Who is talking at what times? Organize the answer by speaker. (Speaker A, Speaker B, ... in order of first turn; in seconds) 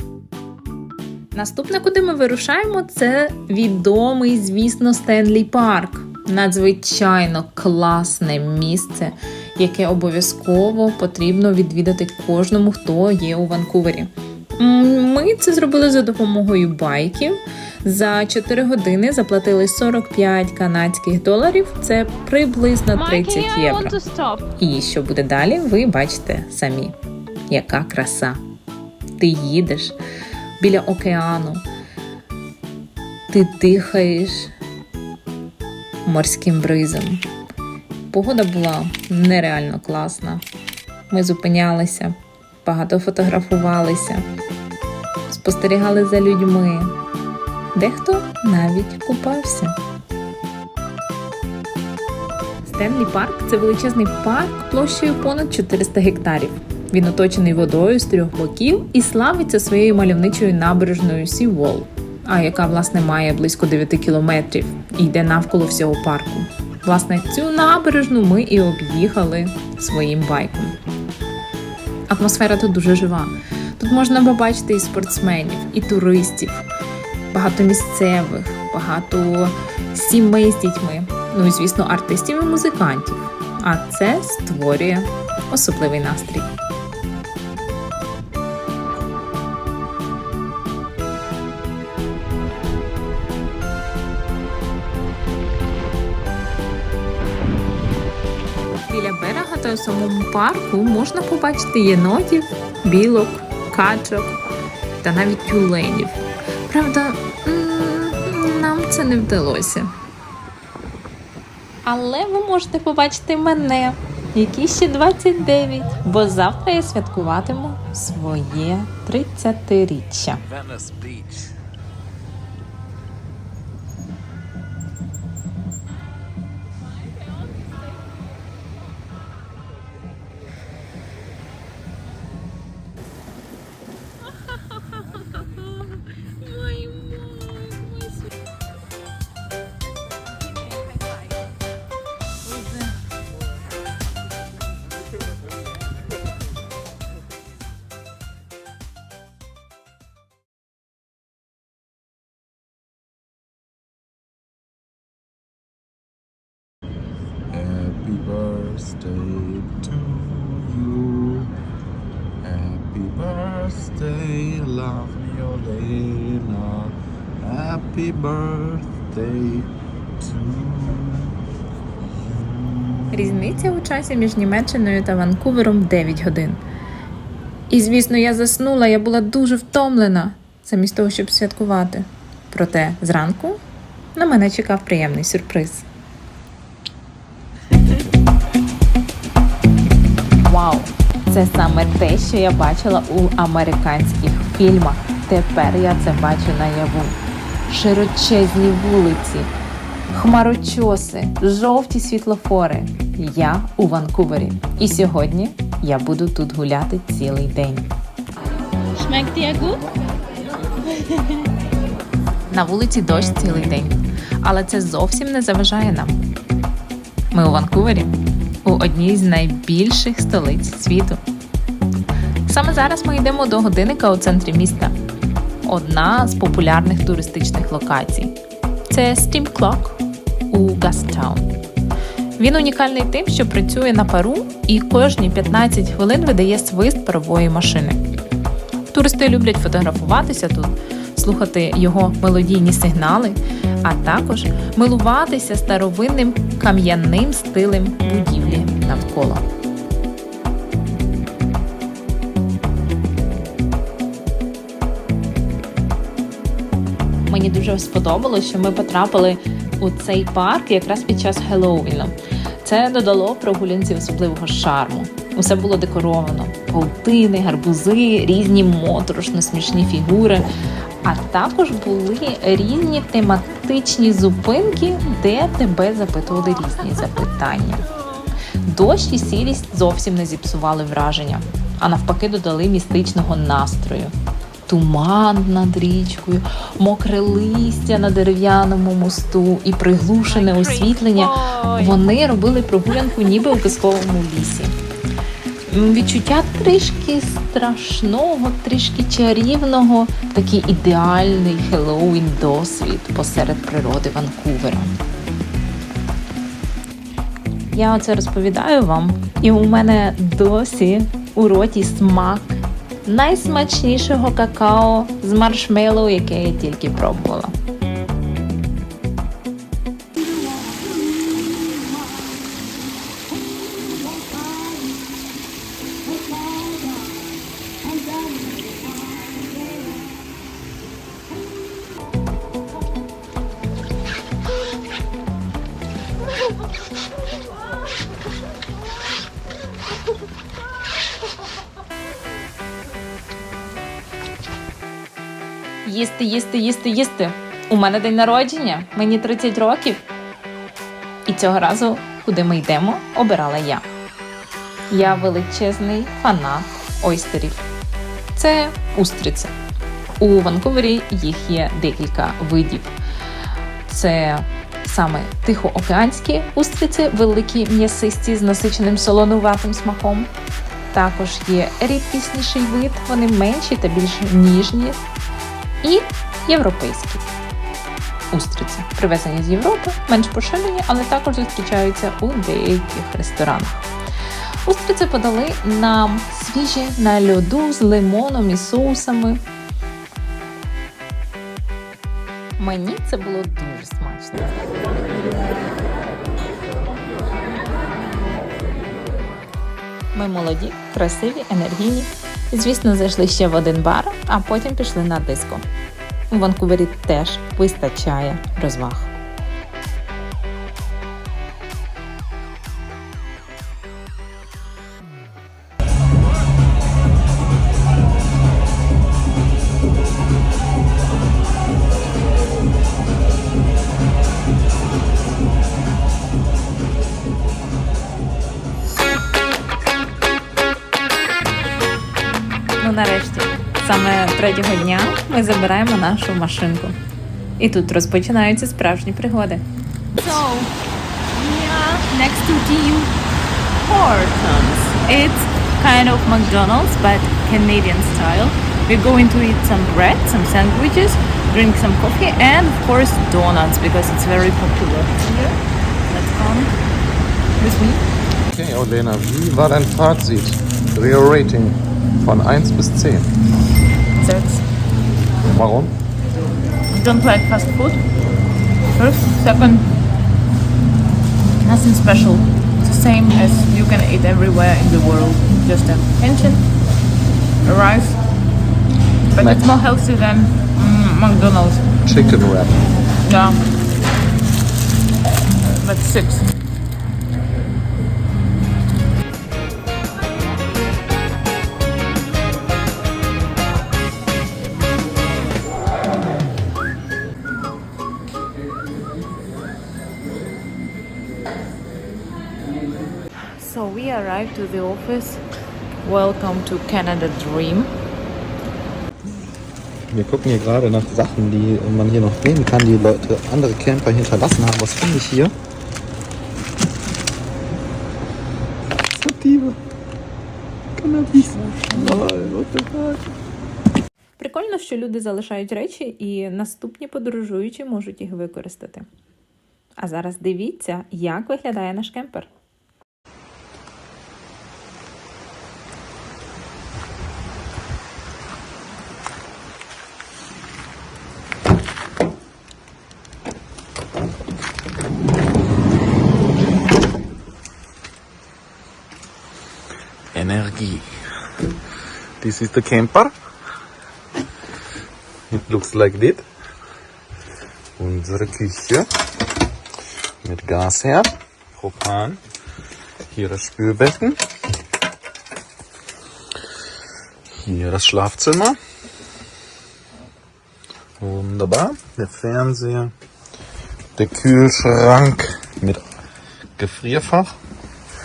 Speaker A: 1.3-24.0, 24.6-26.9, 27.5-28.4, 29.2-30.0, 30.6-31.6, 33.3-34.5, 36.0-37.2, 38.1-40.4, 41.1-44.3, 45.3-46.9, 47.7-49.8, 52.6-70.8, 72.1-76.7, 77.3-86.5, 98.9-104.4, 105.0-109.9, 111.8-120.4, 136.2-138.2, 173.1-176.6, 177.7-183.6, 184.2-185.9, 190.5-197.2, 197.7-199.5, 200.1-207.9, 212.5-216.2, 217.3-218.1, 218.7-221.2, 222.5-224.9, 225.7-228.4, 228.9-230.0, 230.5-231.5, 232.4-238.0, 238.9-249.4, 257.3-270.5, 271.1-277.9, 278.6-284.1, 284.7-294.8, 295.7-304.9, 307.7-317.5, 345.9-350.1, 351.3-353.9, 354.9-357.6, 358.4-359.5, 360.2-362.9, 363.9-370.3, 370.9-375.0, 375.8-377.3, 378.3-383.9, 384.6-389.4, 392.6-394.7, 400.1-405.6, 406.3-409.1, 432.8-437.0, 437.6-439.6, 445.0-448.5, 450.3-450.7, 451.9-452.3, 457.6-458.0, 524.4-529.1, 530.0-532.5
Speaker B: 22.9-24.5, 142.5-142.9, 209.0-209.8, 210.8-211.5, 290.3-292.0, 440.2-440.7, 441.4-443.1, 443.8-445.1, 445.7-447.4, 448.2-455.5, 456.1-456.7, 464.2-464.6, 466.9-468.0, 468.9-469.9, 471.6-476.6, 477.6-478.2, 479.3-481.9, 483.2-483.6, 485.8-486.5, 503.6-505.4, 506.0-507.9
Speaker C: 120.5-121.5, 157.5-161.5, 162.4-171.3, 172.3-173.6, 458.5-463.3, 465.5-465.9, 479.4-479.7, 482.1-482.8, 510.1-515.5, 519.1-519.8, 521.0-523.3, 550.3-551.1, 552.4-553.3, 555.5-556.5, 558.0-559.1, 560.4-562.4, 563.3-564.4, 567.6-568.8, 571.2-573.1, 574.2-576.0, 576.8-577.5